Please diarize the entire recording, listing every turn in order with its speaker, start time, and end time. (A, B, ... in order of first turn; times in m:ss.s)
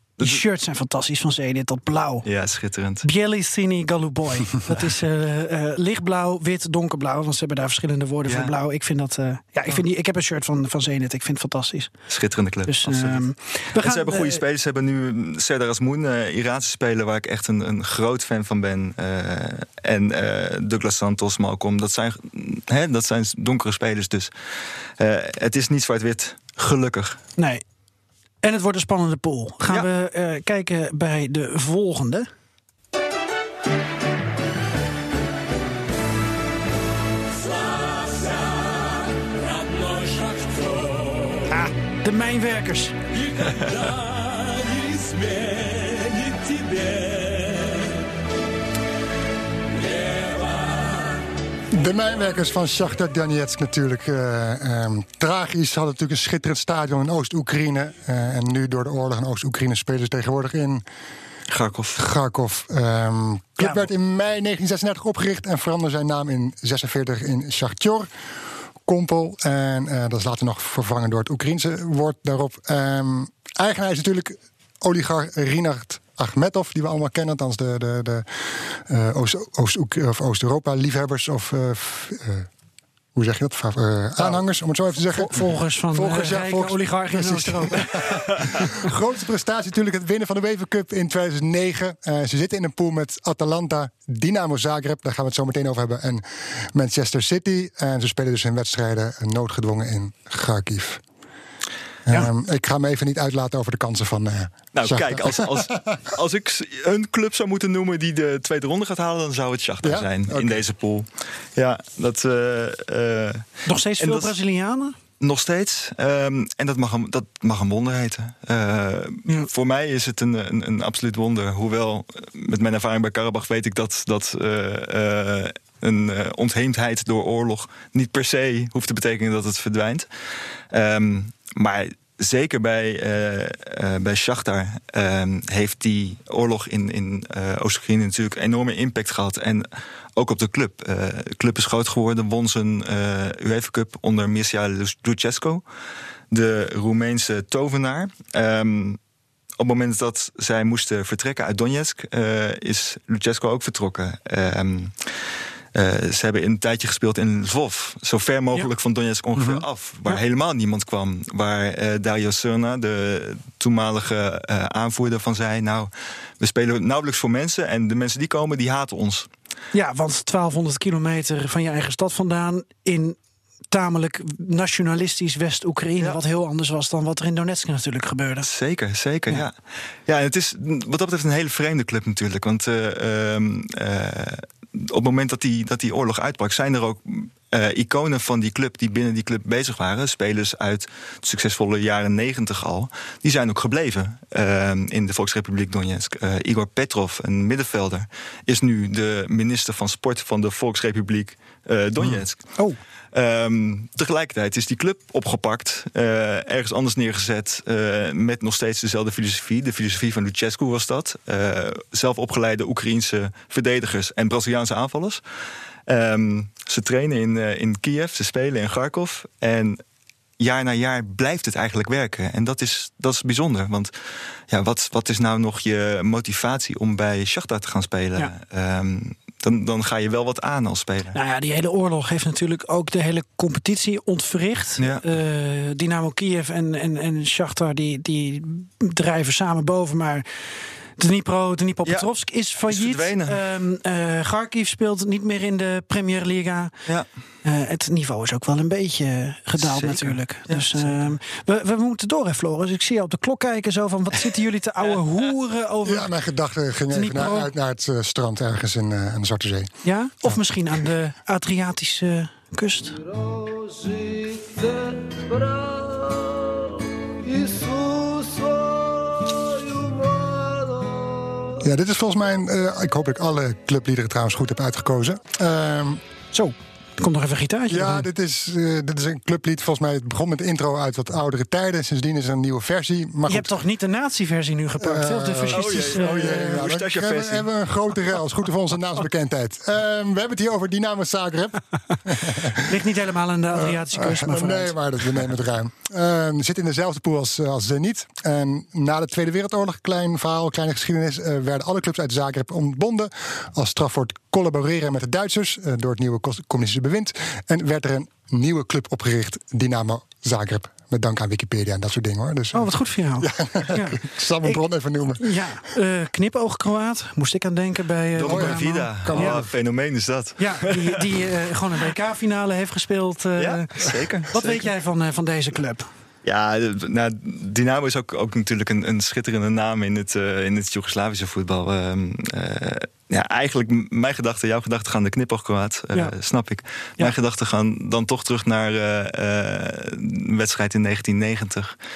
0:00.2-0:02.3 A
0:02.2-0:03.1 B
0:03.0-0:11.9 A
0:08.3-0:08.5 B
0:12.1-0:24.3 B
0:12.7-0:14.4 A
0:25.0-0:27.2 B
0:27.4-0:27.6 A
0:28.4-0:32.3 A
0:41.4-0:43.0 A
0:43.4-0:43.8 B
0:51.7-1:00.8 C
1:01.5-1:02.0 B
1:02.0-1:08.1 C
1:03.6-1:03.9 A
1:08.9-1:22.5 C
1:23.2-1:41.0 C
1:25.1-1:28.0 A
1:42.1-1:46.0 C
1:44.7-1:54.4 B
1:49.8-1:50.6 C
1:53.7-1:55.0 A
1:55.2-2:10.1 B
2:10.7-2:25.6 B
2:26.3-2:29.0 B
2:29.6-2:35.0 B
2:35.8-2:49.3 B
2:49.7-2:53.2 A
2:53.7-2:58.5 A
2:58.4-2:59.6 B
3:00.1-3:22.6 B
3:23.1-3:35.2 B
3:35.9-3:39.8 B
3:40.4-3:43.9 B
3:44.5-3:51.2 B
3:51.1-4:00.3 A
3:54.8-3:55.1 B
4:01.0-4:06.7 A
4:02.7-4:03.4 B
4:07.4-4:16.1 A
4:09.6-4:11.2 B
4:15.8-4:19.7 C
4:16.9-4:17.5 A
4:19.8-4:23.0 A
4:31.6-4:36.0 C
4:36.3-4:38.1 A
4:37.7-4:43.6 C
4:43.3-4:46.7 A
4:44.8-4:52.8 C
4:45.5-4:47.5 B
4:52.7-4:54.8 A
4:53.6-5:15.4 C
5:12.5-5:14.6 A
5:15.2-5:19.5 A
5:18.2-5:21.2 B
5:18.3-5:19.4 C
5:20.4-5:25.9 A
5:23.4-5:24.7 B
5:26.2-5:41.8 B